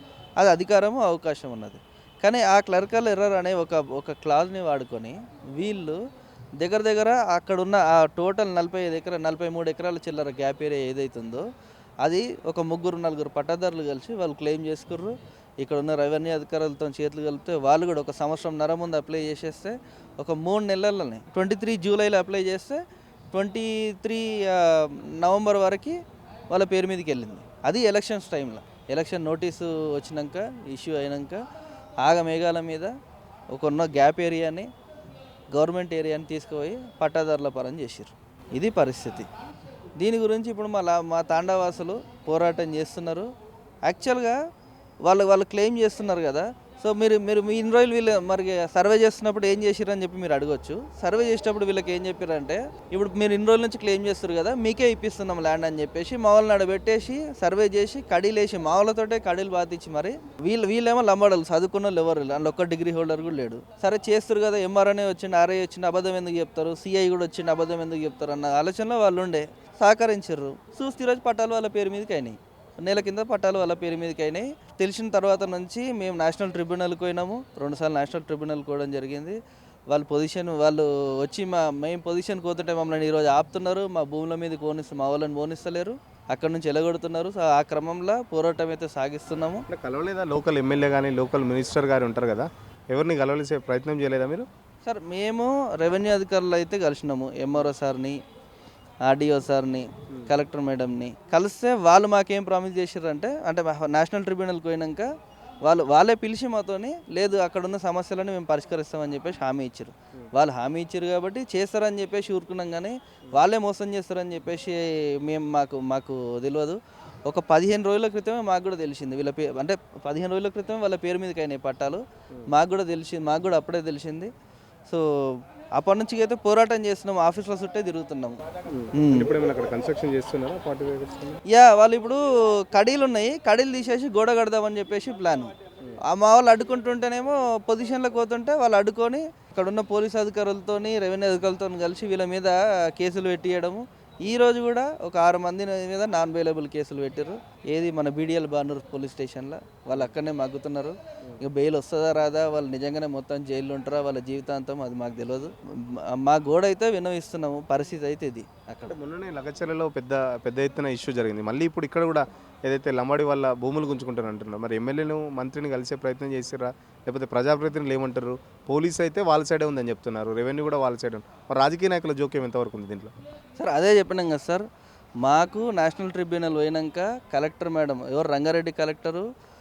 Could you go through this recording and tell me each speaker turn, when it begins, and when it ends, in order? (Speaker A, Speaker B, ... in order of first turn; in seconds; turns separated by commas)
Speaker A: 0.4-6.0, Speaker A: 6.6-11.5, Speaker A: 12.0-26.0, Speaker A: 26.5-31.4, Speaker A: 32.0-32.9, Speaker A: 33.5-34.7, Speaker A: 35.5-39.3, Speaker A: 40.0-43.3, Speaker A: 43.9-44.4, Speaker A: 45.0-79.4, Speaker A: 79.9-89.7, Speaker B: 89.7-94.5, Speaker A: 94.8-98.2, Speaker A: 99.1-105.1, Speaker A: 105.6-124.3, Speaker A: 124.9-128.4, Speaker B: 128.7-131.4, Speaker A: 128.9-129.3, Speaker A: 131.5-135.5, Speaker A: 136.1-159.0, Speaker B: 158.9-173.1, Speaker A: 173.6-174.7, Speaker A: 175.2-179.3